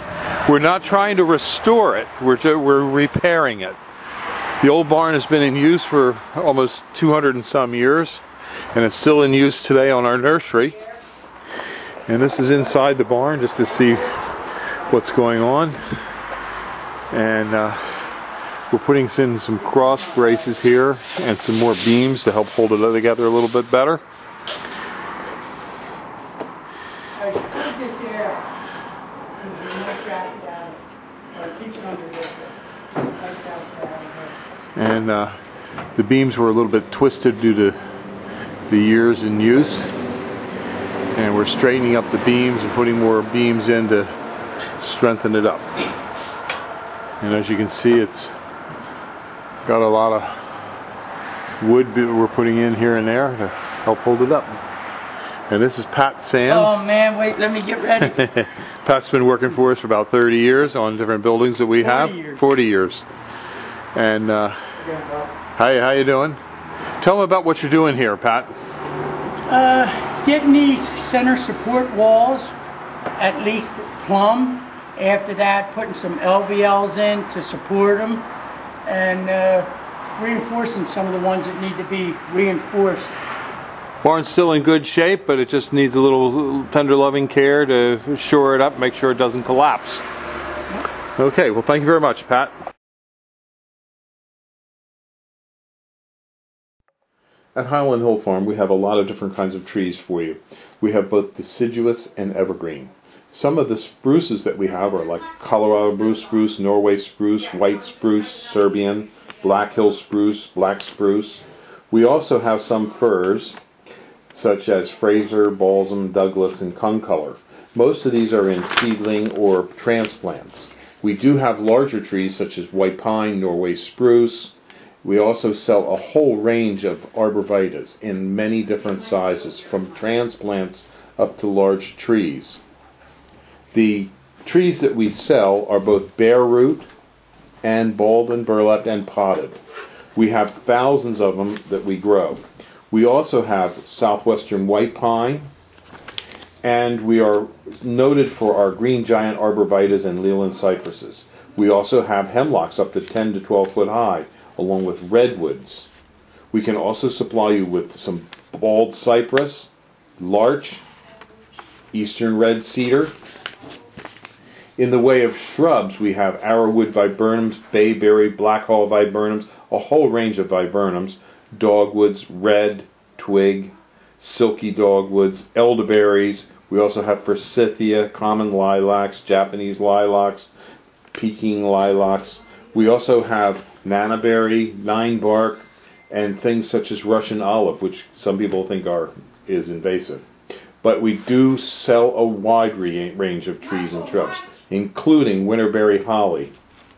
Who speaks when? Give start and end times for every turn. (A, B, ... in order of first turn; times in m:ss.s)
0:00.4-0:03.8 A
0:04.6-0:10.8 A
0:12.1-0:14.1 A
0:14.8-0:16.0 A
0:17.1-0:18.0 A
0:18.7-0:24.0 A
0:19.9-0:20.3 B
0:27.2-0:28.4 B
0:29.4-0:30.8 B
0:31.3-0:34.3 B
0:34.7-0:35.4 A
0:35.9-0:37.8 A
0:38.7-0:39.9 A
0:41.1-0:44.1 A
0:44.8-0:45.7 A
0:47.2-0:48.3 A
0:49.6-0:50.4 A
0:51.6-0:54.6 A
0:55.5-0:56.8 A
0:56.5-0:58.2 B
0:58.0-1:03.1 A
1:01.8-1:02.4 B
1:03.9-1:04.6 A
1:04.9-1:05.3 B
1:05.5-1:06.4 A
1:07.0-1:08.5 A
1:09.5-1:12.5 B
1:13.2-1:18.3 B
1:18.8-1:23.2 B
1:24.0-1:30.0 A
1:31.2-1:32.5 A
1:37.5-1:53.6 A
1:54.3-2:12.6 A
2:13.7-2:16.9 A
2:17.6-2:19.6 A
2:20.1-2:25.5 A
2:26.6-2:35.9 A
2:36.5-2:40.8 A
2:41.9-2:43.1 A
2:44.8-3:00.5 A
3:01.1-3:10.2 A
3:10.8-3:16.6 A